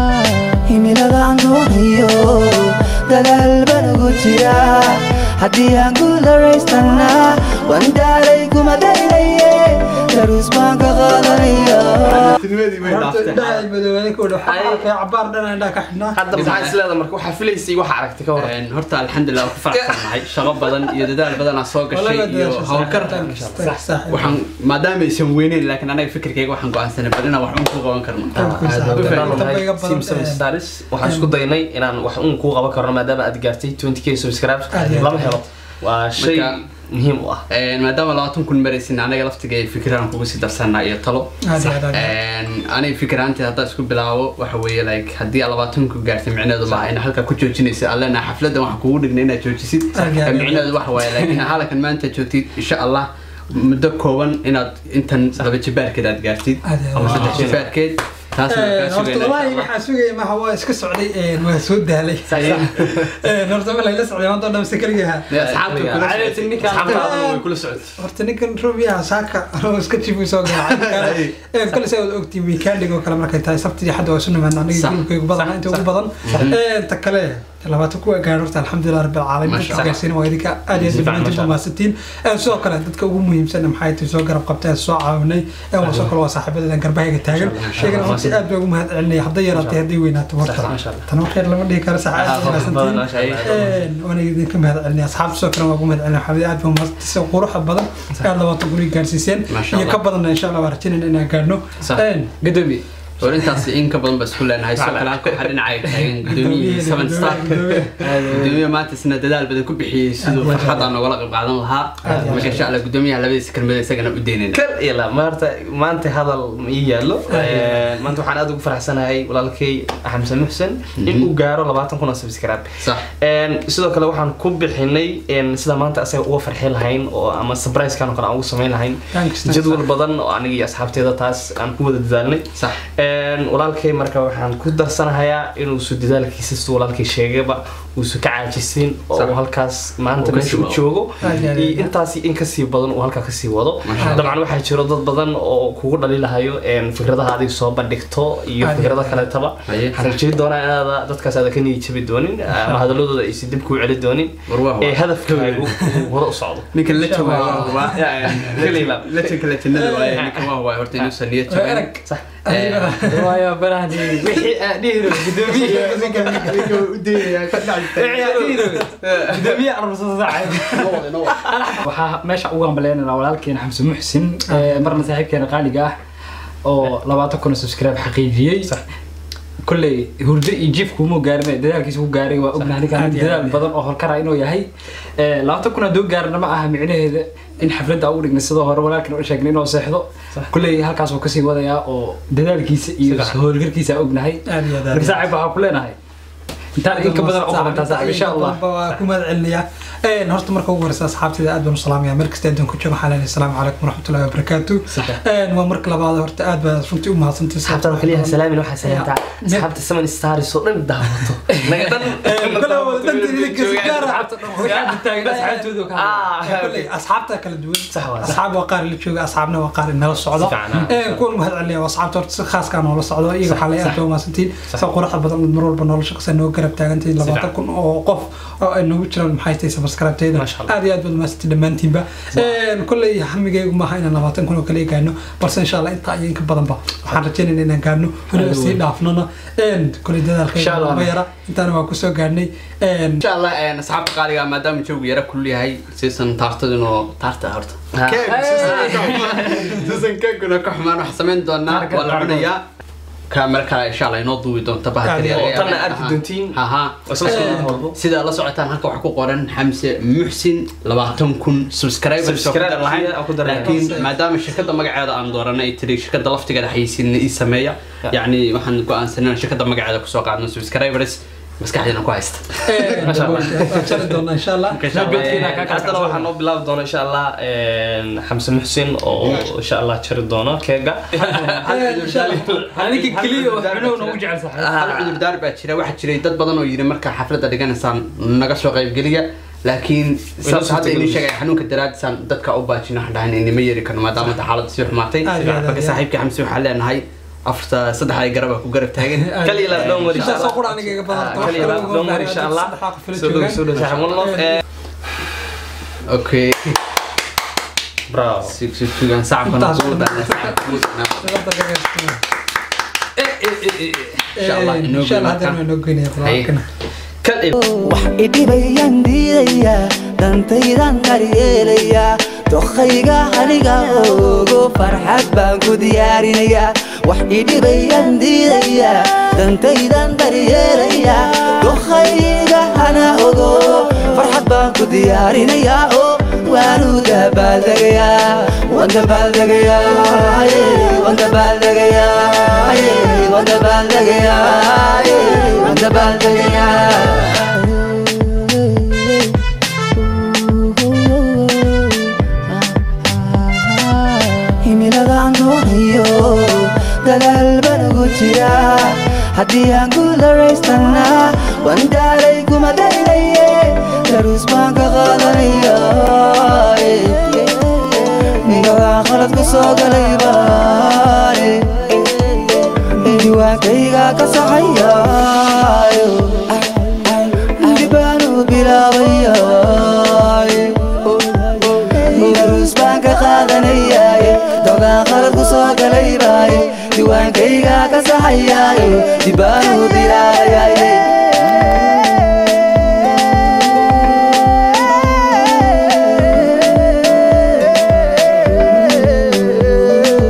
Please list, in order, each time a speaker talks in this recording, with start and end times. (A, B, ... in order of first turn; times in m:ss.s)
0:00.5-0:12.3 A
0:12.1-0:13.7 B
0:12.8-0:16.7 C
0:14.5-0:14.9 D
0:16.1-0:18.5 D
0:16.3-0:16.8 B
0:18.4-0:23.2 B
0:19.4-0:21.0 D
0:21.9-0:24.3 C
0:22.9-0:23.7 D
0:24.1-0:29.5 B
0:28.4-0:30.5 C
0:28.4-0:37.4 D
0:31.0-0:31.4 C
0:34.7-0:35.4 C
0:36.2-0:36.6 B
0:37.5-0:59.7 B
0:41.4-0:42.1 C
0:50.0-0:50.7 C
0:56.7-0:57.5 C
0:57.0-0:57.7 D
0:58.5-1:05.3 C
1:02.3-1:03.1 D
1:05.3-1:06.6 B
1:05.3-1:07.9 D
1:05.9-1:07.2 E
1:06.8-1:42.3 C
1:10.6-1:11.4 B
1:14.7-1:15.1 B
1:15.3-1:16.6 D
1:16.2-1:16.5 B
1:19.4-1:19.9 B
1:19.7-1:20.0 D
1:20.8-1:21.6 D
1:25.8-1:26.1 D
1:27.3-1:28.4 D
1:27.5-1:28.2 B
1:29.5-1:29.8 D
1:30.4-1:31.0 D
1:32.2-1:33.8 D
1:32.2-1:33.4 B
1:39.5-1:40.0 B
1:41.8-1:42.1 D
1:42.4-1:42.8 E
1:43.2-1:54.6 B
1:44.8-1:45.6 D
1:46.3-1:48.1 C
1:48.0-1:48.6 D
1:50.2-1:50.9 C
1:52.0-1:52.7 C
1:52.1-1:52.6 D
1:54.5-2:36.7 D
1:57.3-1:57.8 C
2:01.0-2:01.3 B
2:09.1-2:09.9 C
2:12.5-2:12.8 B
2:20.2-2:20.8 B
2:21.2-2:21.9 C
2:23.8-2:24.2 B
2:24.0-2:24.3 C
2:28.6-2:29.2 C
2:29.6-2:30.2 B
2:34.5-2:35.8 B
2:36.7-2:41.9 B
2:36.9-2:38.3 C
2:37.8-2:39.4 D
2:39.7-2:40.2 C
2:40.2-2:40.5 D
2:41.5-2:43.3 C
2:42.5-2:43.0 B
2:43.1-2:46.9 E
2:45.4-2:46.7 C
2:45.5-2:48.3 B
2:47.8-2:56.0 E
2:48.2-2:48.8 C
2:49.0-2:49.4 B
2:50.7-2:51.4 B
2:54.5-2:55.0 C
2:56.6-2:58.8 E
2:59.6-3:16.0 E
3:02.9-3:03.7 C
3:13.1-3:13.4 D
3:14.4-3:15.2 C
3:16.8-3:19.0 E
3:16.9-3:29.7 C
3:24.9-3:25.2 E
3:27.6-3:36.9 D
3:31.5-3:32.1 E
3:32.2-3:35.7 C
3:33.9-3:36.4 E
3:36.4-4:03.2 C
3:37.9-3:38.4 D
3:40.3-3:41.2 D
3:43.4-3:44.0 E
3:47.2-3:47.5 D
3:50.3-3:50.7 D
3:58.3-3:58.8 E
4:00.5-4:01.2 E
4:03.2-4:12.6 B
4:08.0-4:08.9 D
4:08.3-4:09.5 E
4:08.6-4:08.9 C
4:11.7-4:12.5 E
4:13.3-4:33.3 B
4:15.1-4:15.7 C
4:15.3-4:18.0 D
4:17.3-4:17.7 C
4:22.2-4:23.9 D
4:23.6-4:24.1 C
4:32.7-4:36.0 C
4:33.0-4:34.2 D
4:34.7-4:35.5 B
4:34.9-4:36.2 E
4:35.0-4:42.7 D
4:39.2-4:39.5 B
4:41.2-4:44.2 B
4:41.3-4:41.6 E
4:41.6-4:42.7 C
4:42.7-4:44.8 E
4:44.6-4:45.2 D
4:44.7-5:00.5 B
4:50.4-4:51.2 D
4:55.2-4:56.0 C
4:59.2-5:04.6 C
4:59.4-5:04.6 D
5:01.5-5:01.8 B
5:06.1-5:06.8 B
5:08.1-5:08.6 D
5:08.4-5:11.3 B
5:09.5-5:12.2 C
5:13.2-5:14.2 E
5:14.4-5:16.7 C
5:14.4-5:15.6 B
5:16.2-5:16.5 B
5:17.2-5:17.6 D
5:17.8-5:48.0 A
5:50.3-5:51.9 A
5:52.8-6:12.1 A
6:12.8-6:31.3 A
6:39.0-6:40.1 A